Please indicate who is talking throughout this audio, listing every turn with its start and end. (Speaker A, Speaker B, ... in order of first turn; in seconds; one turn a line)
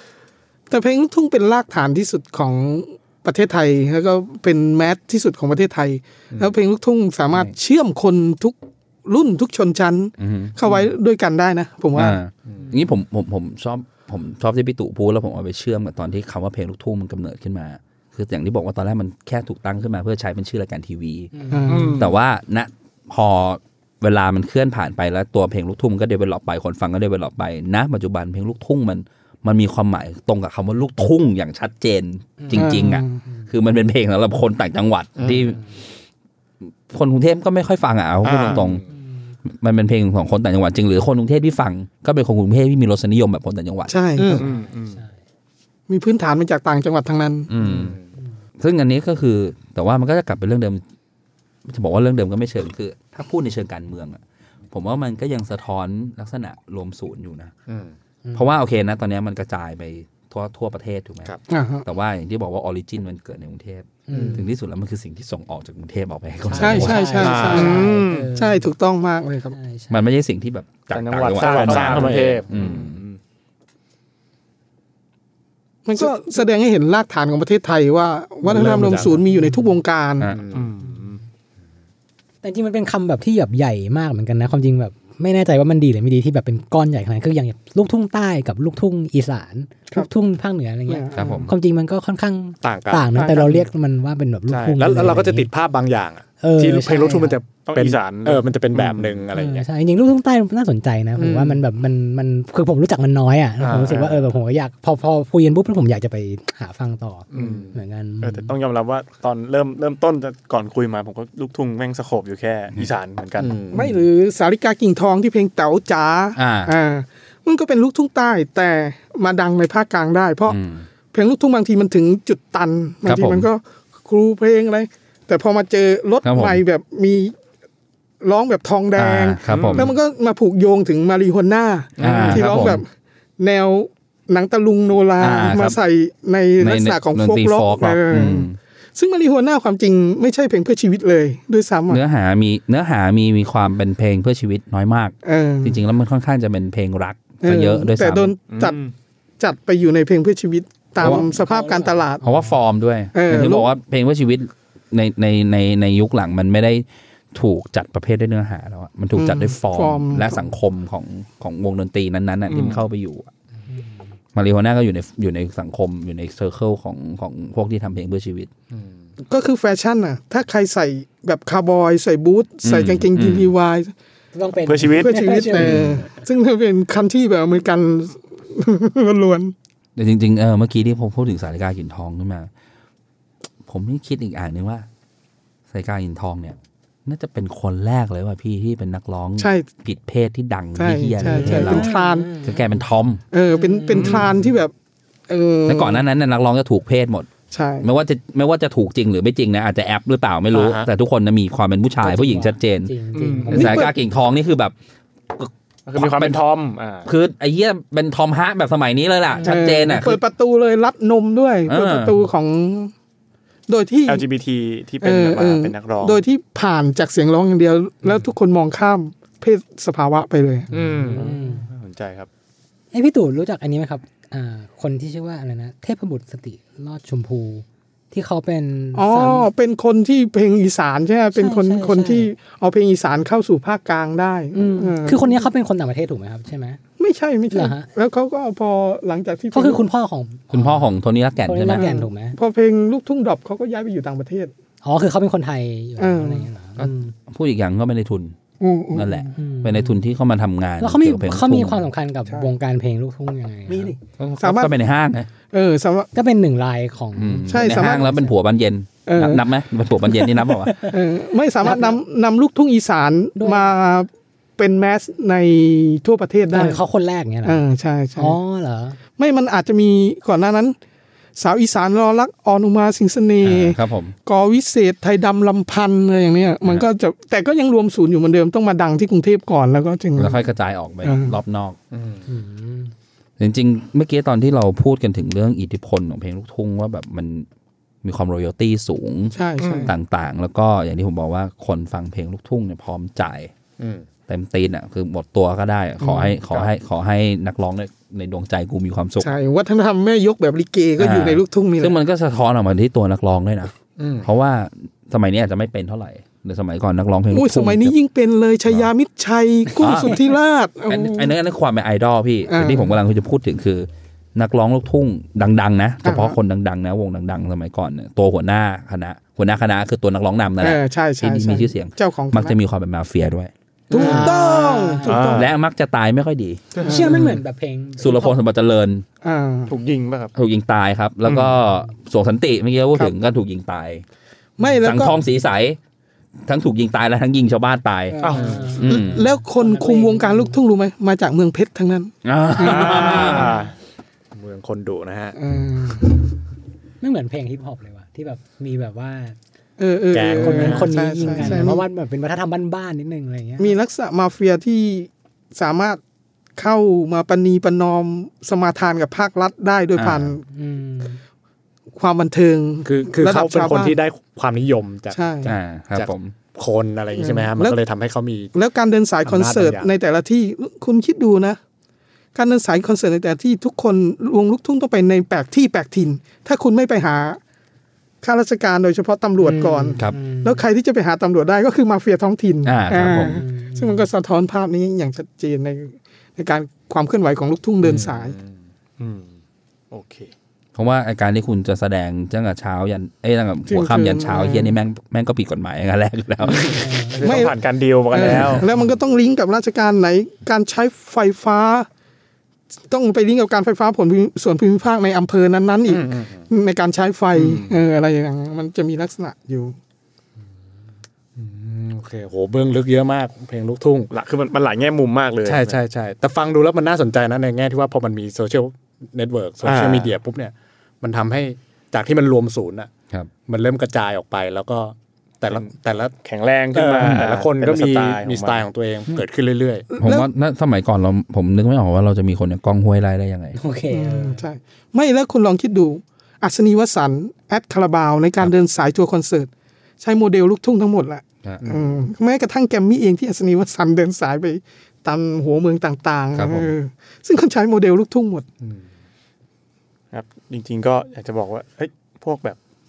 Speaker A: 0.7-12.2
Speaker B: 10.2-10.6
Speaker B: 11.9-21.3
Speaker C: 21.3-21.9
Speaker A: 21.5-22.1
Speaker D: 21.7-22.1
Speaker B: 22.0-35.6
Speaker C: 32.4-33.4
Speaker A: 32.5-33.2
Speaker E: 35.2-35.4
Speaker B: 36.9-38.8
Speaker E: 38.2-38.8
Speaker B: 39.5-43.9
Speaker A: 43.9-44.4
Speaker E: 44.2-44.4
Speaker D: 44.3-45.0
Speaker C: 44.4-45.1
Speaker A: 45.9-47.5
Speaker B: 47.5-48.0
Speaker E: 47.6-48.0
Speaker B: 48.6-50.8
Speaker B: 51.7-54.2
Speaker B: 54.7-57.5
Speaker E: 57.7-57.9
Speaker B: 58.4-61.3
Speaker A: 61.5-61.8
Speaker B: 61.8-67.3
Speaker C: 64.1-64.4
Speaker E: 64.1-64.4
Speaker C: 66.5-68.7
Speaker A: 66.6-69.6
Speaker E: 67.2-67.9
Speaker D: 67.2-68.3
Speaker C: 69.5-70.0
Speaker B: 69.9-73.0
Speaker D: 70.9-73.2
Speaker E: 71.4-72.6
Speaker A: 75.9-80.3
Speaker E: 78.4-79.2
Speaker E: 80.3-80.7
Speaker D: 80.5-81.2
Speaker C: 82.4-95.5
Speaker A: 90.9-91.5
Speaker B: 91.1-91.5
Speaker E: 92.6-93.2
Speaker A: 93.2-93.6
Speaker E: 94.5-99.7
Speaker C: 96.4-97.4
Speaker D: 97.7-99.2
Speaker C: 99.3-108.5
Speaker E: 101.2-101.6
Speaker E: 103.6-104.3
Speaker E: 107.3-107.7
Speaker D: 107.3-113.8
Speaker E: 113.4-113.9
Speaker A: 113.7-120.6
Speaker B: 116.4-116.7
Speaker B: 120.5-120.8
Speaker A: 121.1-127.3
Speaker B: 123.0-123.5
Speaker B: 126.2-126.6
Speaker A: 128.2-132.9
Speaker B: 129.0-129.9
Speaker D: 129.5-129.9
Speaker D: 132.0-132.5
Speaker B: 132.0-132.8
Speaker A: 133.4-142.0
Speaker B: 135.2-135.8
Speaker B: 136.6-138.6
Speaker B: 141.9-148.3
Speaker A: 145.2-145.8
Speaker A: 147.4-148.8
Speaker D: 148.5-148.9
Speaker A: 149.4-152.2
Speaker B: 151.0-151.3
Speaker C: 151.0-152.6
Speaker B: 152.2-163.3
Speaker A: 153.1-153.7
Speaker A: 159.2-160.5
Speaker D: 162.5-162.8
Speaker B: 164.3-168.5
Speaker A: 169.3-173.9
Speaker B: 172.6-173.5
Speaker C: 174.3-176.0
Speaker D: 174.7-175.2
Speaker A: 174.9-179.5
Speaker B: 180.0-182.5
Speaker B: 183.7-184.9
Speaker B: 185.7-193.2
Speaker A: 189.4-189.7
Speaker A: 190.8-192.3
Speaker C: 191.2-192.8
Speaker A: 193.3-194.7
Speaker C: 193.5-194.3
Speaker D: 193.9-194.4
Speaker A: 195.3-196.0
Speaker B: 195.7-197.3
Speaker A: 197.5-197.9
Speaker B: 197.8-202.9
Speaker E: 200.5-200.9
Speaker C: 202.0-203.9
Speaker D: 203.1-203.7
Speaker A: 203.5-203.9
Speaker B: 203.5-204.7
Speaker B: 205.3-206.4
Speaker D: 205.9-207.1
Speaker B: 207.1-210.2
Speaker C: 209.3-209.6
Speaker A: 209.4-212.9
Speaker B: 211.7-212.2
Speaker A: 213.7-214.3
Speaker D: 214.1-216.2
Speaker A: 215.0-221.3
Speaker C: 220.7-221.7
Speaker D: 220.7-222.3
Speaker C: 222.9-229.5
Speaker A: 228.9-235.4
Speaker C: 231.3-232.3
Speaker C: 234.5-236.8
Speaker A: 237.0-239.8
Speaker C: 237.5-237.9
Speaker C: 239.5-240.9
Speaker B: 240.5-241.8
Speaker C: 241.5-242.4
Speaker A: 241.7-244.5
Speaker C: 244.8-247.1
Speaker A: 246.0-246.5
Speaker B: 246.8-248.3
Speaker A: 248.6-249.3
Speaker B: 248.9-251.8
Speaker C: 249.4-250.0
Speaker C: 250.8-253.9
Speaker A: 253.7-254.7
Speaker B: 254.2-255.3
Speaker A: 255.5-256.1
Speaker C: 256.1-258.3
Speaker B: 257.2-260.9
Speaker A: 257.5-258.1
Speaker A: 259.1-259.4
Speaker C: 260.3-261.0
Speaker A: 260.9-266.8
Speaker C: 261.6-261.9
Speaker C: 263.4-263.6
Speaker C: 266.5-267.6
Speaker A: 267.4-268.4
Speaker C: 268.2-269.0
Speaker A: 269.2-270.8
Speaker A: 271.4-280.4
Speaker B: 273.4-274.1
Speaker B: 280.2-281.8
Speaker A: 281.0-281.4
Speaker E: 281.9-282.2
Speaker C: 282.3-282.9
Speaker B: 283.4-287.5
Speaker B: 288.0-289.4
Speaker A: 289.3-289.9
Speaker E: 289.6-289.9
Speaker B: 289.9-293.5
Speaker E: 293.8-294.1
Speaker B: 294.3-299.3
Speaker A: 296.0-296.4
Speaker A: 299.2-301.9
Speaker B: 301.0-307.9
Speaker E: 304.0-304.3
Speaker A: 307.3-311.3
Speaker B: 309.8-310.2
Speaker B: 310.9-323.5
Speaker A: 312.5-313.0
Speaker A: 316.0-316.4
Speaker A: 320.6-322.6
Speaker D: 323.9-324.3
Speaker C: 323.9-325.2
Speaker A: 323.9-325.5
Speaker D: 325.1-325.5
Speaker B: 325.3-326.7
Speaker A: 326.8-327.4
Speaker C: 326.8-328.4
Speaker B: 328.0-329.0
Speaker A: 329.2-329.7
Speaker D: 329.7-330.3
Speaker B: 330.4-334.0
Speaker A: 334.6-335.2
Speaker B: 334.8-335.8
Speaker B: 336.5-338.2
Speaker C: 338.1-340.6
Speaker D: 338.2-338.7
Speaker E: 338.3-338.7
Speaker B: 338.8-339.3
Speaker A: 338.8-343.7
Speaker B: 342.2-343.6
Speaker D: 343.0-343.5
Speaker E: 344.3-345.4
Speaker A: 345.4-346.1
Speaker C: 347.0-349.4
Speaker A: 349.8-351.8
Speaker E: 350.1-351.7
Speaker C: 350.4-353.7
Speaker A: 353.6-356.0
Speaker A: 356.6-360.4
Speaker B: 360.0-360.4
Speaker C: 360.5-361.2
Speaker A: 361.9-364.0
Speaker E: 362.8-368.5
Speaker A: 365.1-365.5
Speaker B: 365.4-366.3
Speaker A: 367.2-367.8
Speaker A: 368.5-371.6
Speaker E: 369.2-369.9
Speaker A: 372.4-377.4
Speaker A: 378.2-388.4
Speaker C: 379.4-380.6
Speaker B: 382.6-383.4
Speaker C: 383.4-384.0
Speaker D: 388.2-389.4
Speaker D: 389.9-390.3
Speaker B: 390.8-397.0
Speaker A: 393.7-394.8
Speaker D: 396.6-398.7
Speaker C: 396.7-397.2
Speaker A: 397.2-397.6
Speaker A: 398.1-401.9
Speaker B: 398.2-398.6
Speaker A: 402.9-409.8
Speaker E: 405.9-406.5
Speaker E: 411.4-414.1
Speaker D: 414.1-415.8
Speaker E: 415.4-422.9
Speaker D: 419.6-420.1
Speaker E: 423.5-426.1
Speaker D: 426.2-428.7
Speaker E: 426.7-429.9
Speaker A: 429.9-430.3
Speaker B: 430.0-433.6
Speaker C: 433.6-434.4
Speaker A: 433.9-439.5
Speaker A: 440.0-448.5
Speaker E: 441.6-442.0
Speaker B: 446.4-446.7
Speaker D: 450.1-452.6